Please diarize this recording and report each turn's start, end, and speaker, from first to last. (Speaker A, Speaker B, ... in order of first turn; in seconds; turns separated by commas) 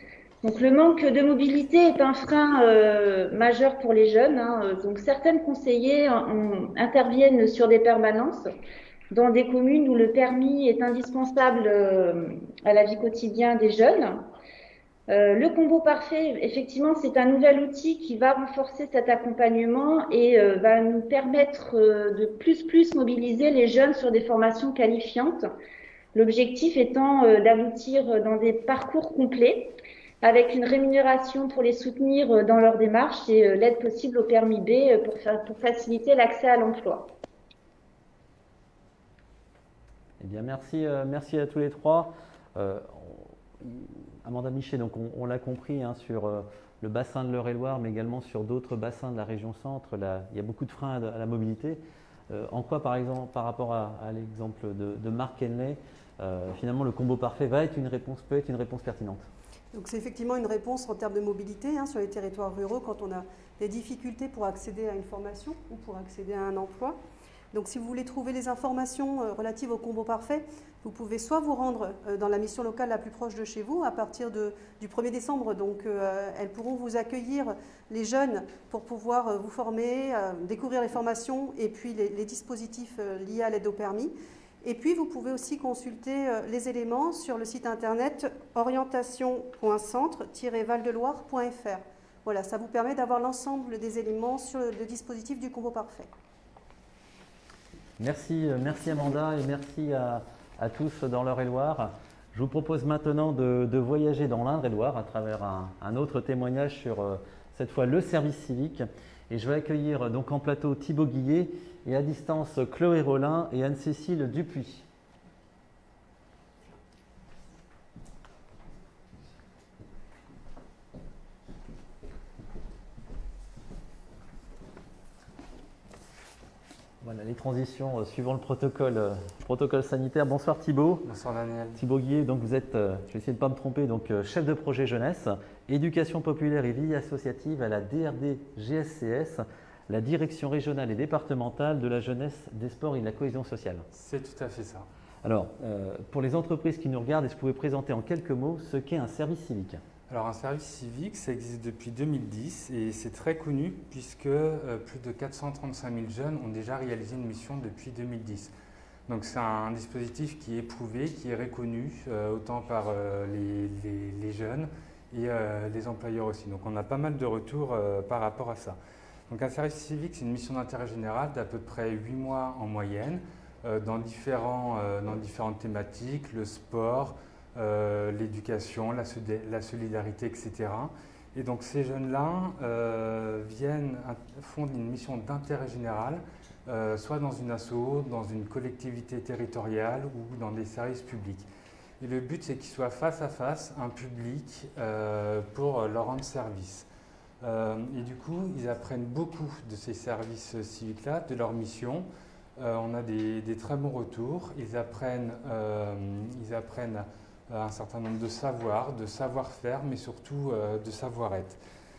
Speaker A: 0.4-8.5, Speaker A: 9.1-14.2, Speaker A: 15.1-25.4, Speaker A: 26.1-37.1, Speaker B: 40.2-59.3, Speaker C: 59.7-67.0, Speaker C: 67.5-96.1, Speaker B: 98.0-114.8, Speaker B: 127.0-131.1, Speaker D: 131.1-131.8, Speaker B: 131.8-143.8, Speaker D: 143.9-144.9, Speaker B: 145.2-149.8, Speaker D: 150.1-158.5, Speaker D: 159.1-168.8, Speaker D: 169.3-191.4, Speaker D: 192.0-196.9, Speaker D: 197.4-211.6